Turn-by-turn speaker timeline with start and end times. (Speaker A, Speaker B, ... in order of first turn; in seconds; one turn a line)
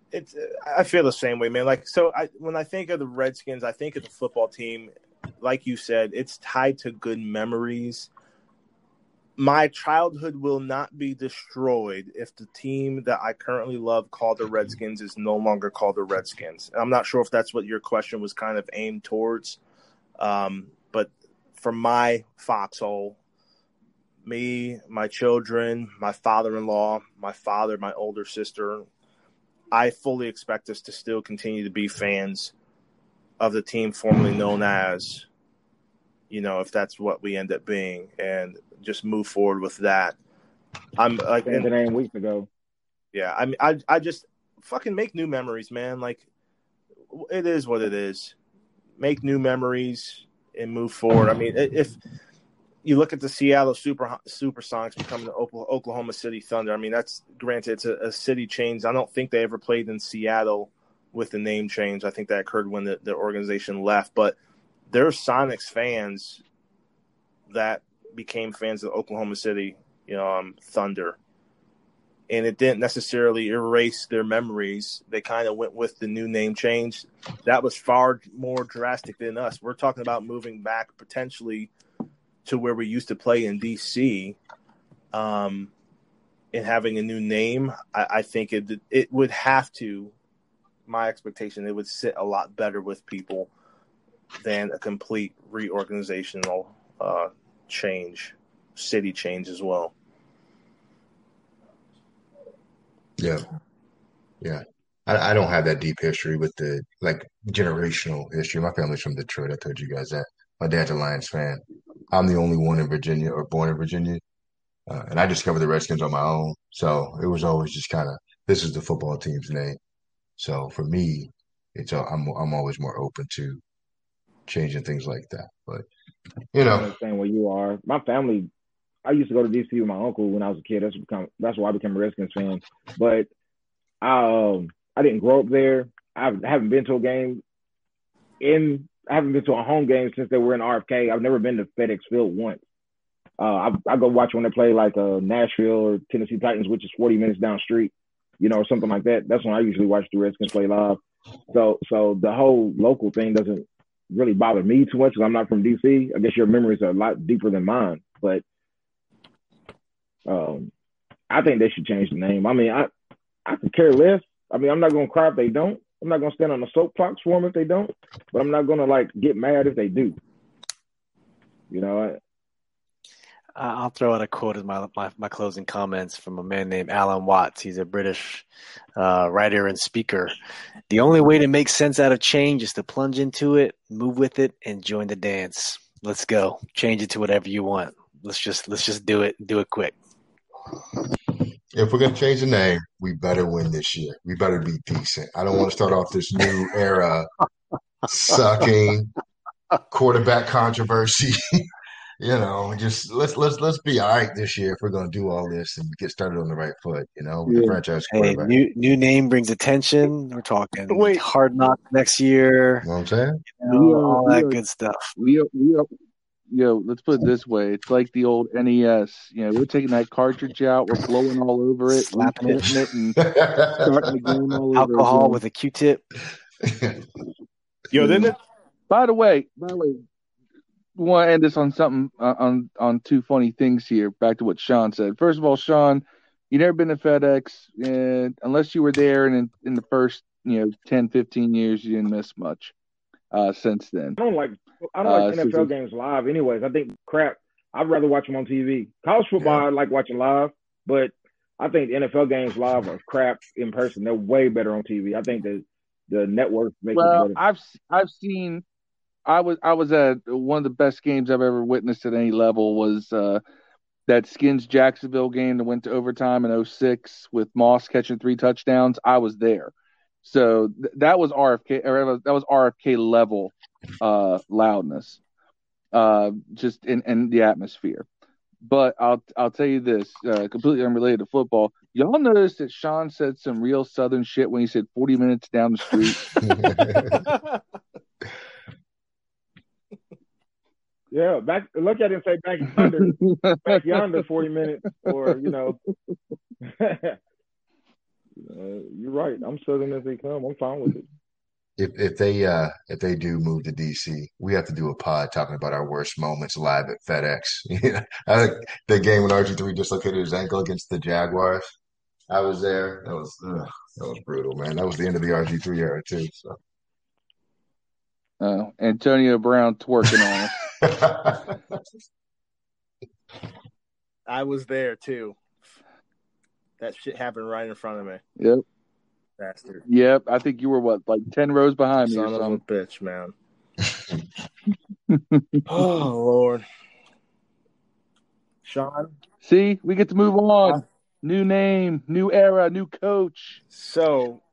Speaker A: 0.1-8.1
Speaker A: 9.4-19.6
Speaker A: 20.2-23.2
Speaker A: 24.2-28.9
Speaker A: 29.7-32.5
Speaker A: 33.4-35.3
Speaker A: 36.3-40.2
Speaker A: 41.0-41.7
Speaker B: 41.5-42.5
Speaker A: 43.1-46.2
Speaker A: 47.1-48.4
Speaker A: 49.0-52.0
Speaker A: 52.8-64.4
Speaker A: 64.9-66.4
Speaker A: 67.5-71.2
Speaker A: 72.3-81.7
Speaker A: 82.5-84.4
Speaker A: 85.1-85.7
Speaker A: 86.5-90.1
Speaker A: 90.9-93.5
Speaker A: 94.4-99.9
Speaker C: 104.4-114.2
Speaker C: 114.9-119.8
Speaker C: 120.4-123.6
Speaker C: 124.5-125.9
Speaker C: 126.5-126.9
Speaker B: 126.7-128.5
Speaker B: 129.1-133.3
Speaker B: 134.0-137.4
Speaker B: 138.4-142.6
Speaker B: 143.4-151.0
Speaker B: 151.5-158.4
Speaker B: 160.3-160.7
Speaker B: 161.3-162.9
Speaker B: 163.5-170.2
Speaker B: 171.7-172.2
Speaker D: 173.6-178.4
Speaker D: 179.0-180.3
Speaker D: 180.9-189.9
Speaker C: 191.7-197.3
Speaker C: 198.1-199.1
Speaker C: 199.9-201.4
Speaker C: 202.2-208.5
Speaker E: 207.5-207.8
Speaker D: 208.1-212.9
Speaker A: 210.9-211.2
Speaker C: 212.8-213.4
Speaker D: 213.6-215.1
Speaker E: 213.7-214.6
Speaker E: 215.2-215.9
Speaker E: 216.5-223.2
Speaker D: 221.9-222.7
Speaker C: 223.2-223.9
Speaker E: 223.7-225.4
Speaker D: 224.7-226.1
Speaker C: 226.6-227.0
Speaker A: 227.9-228.4
Speaker C: 228.0-228.3
Speaker E: 228.9-230.0
Speaker E: 231.0-242.8
Speaker E: 243.3-244.2
Speaker B: 244.2-257.4
Speaker E: 245.0-245.7
Speaker C: 249.4-249.7
Speaker E: 256.9-258.6
Speaker E: 259.3-263.4
Speaker E: 264.1-275.2
Speaker E: 275.9-278.1
Speaker E: 278.6-286.3
Speaker C: 286.4-287.2
Speaker B: 291.1-295.8
Speaker E: 292.8-293.8
Speaker B: 296.6-297.2
Speaker B: 298.4-301.1
Speaker C: 301.8-311.7
Speaker C: 312.3-316.6
Speaker E: 318.4-320.6
Speaker C: 320.8-321.6
Speaker A: 324.3-325.4
Speaker A: 326.8-328.2
Speaker E: 328.4-328.6
Speaker A: 329.4-329.9
Speaker E: 329.9-332.6
Speaker A: 332.1-333.3
Speaker E: 335.1-335.7
Speaker A: 335.7-336.6
Speaker A: 338.6-339.1
Speaker E: 339.4-343.6
Speaker A: 343.7-344.4